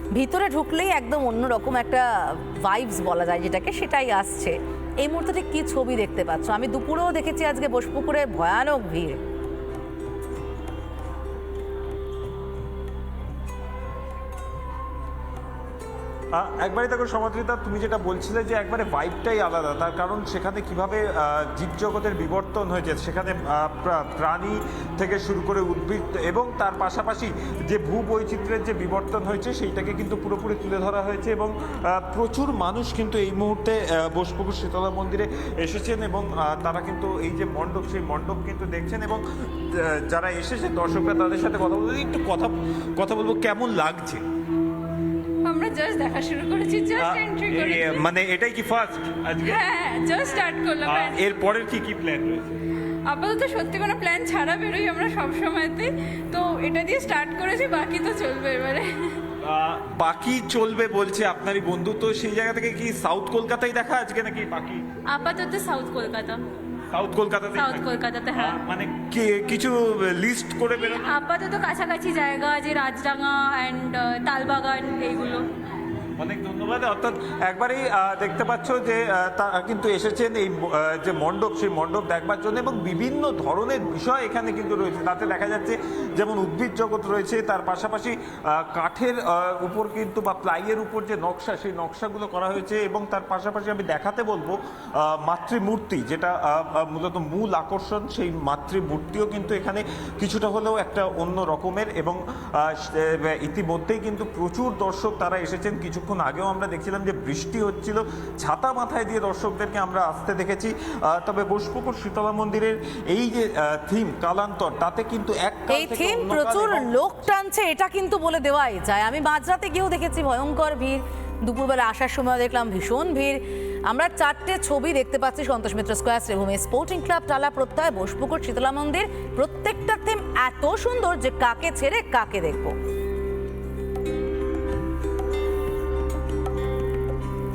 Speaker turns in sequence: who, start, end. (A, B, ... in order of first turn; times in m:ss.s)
0:00.2-0:09.2 A
0:16.4-0:44.2 B
0:45.4-0:48.1 C
0:47.0-0:49.7 B
0:49.4-0:51.3 C
0:50.8-0:52.6 B
0:53.1-0:59.2 C
0:59.4-1:04.8 B
1:05.1-1:06.4 C
1:06.9-1:11.2 B
1:07.6-1:08.6 C
1:10.9-1:15.5 C
1:16.2-1:56.9 B
1:55.7-2:12.7 A